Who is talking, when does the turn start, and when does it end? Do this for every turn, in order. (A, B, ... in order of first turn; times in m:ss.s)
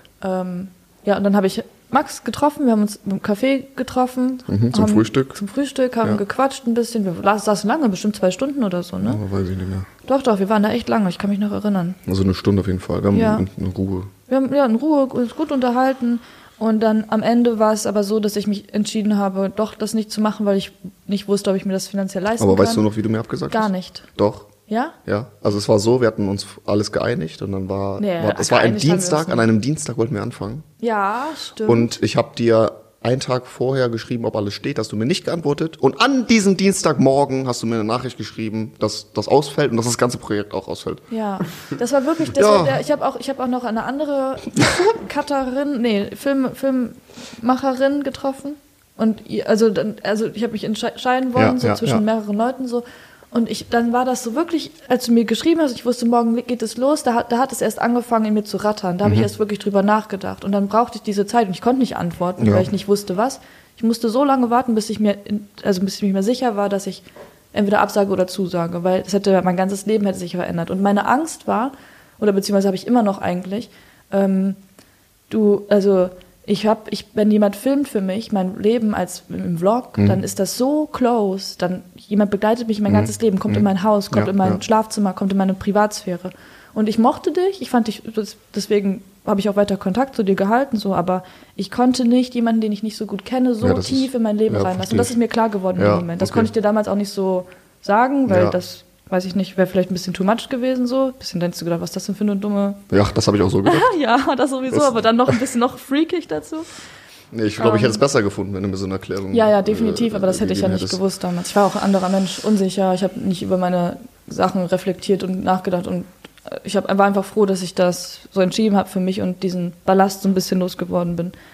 0:00.2-0:09.2 A
0:04.5-0:05.4 B
0:09.0-0:09.9 B
0:10.0-0:12.0 A
0:12.0-0:14.1 B
0:13.1-0:13.4 A
0:14.3-0:22.8 A
0:22.4-0:24.5 B
0:23.5-0:24.0 A
0:24.7-0:24.9 A
0:25.0-0:30.7 B
0:28.0-0:29.5 A
0:30.8-0:31.9 A
0:31.6-0:41.0 B
0:41.1-1:14.6 A
0:42.3-0:42.8 B
0:51.4-0:52.0 B
0:59.0-0:59.3 B
1:02.4-1:02.7 B
1:15.3-1:42.8 A
1:20.0-1:20.2 B
1:22.9-1:24.6 B
1:33.6-1:35.1 B
1:35.8-1:36.5 B
1:38.3-1:38.6 B
1:42.9-1:43.9 B
1:43.6-1:46.7 A
1:44.7-1:45.4 B
1:47.3-1:51.0 B
1:47.6-1:48.0 A
1:49.3-2:01.3 A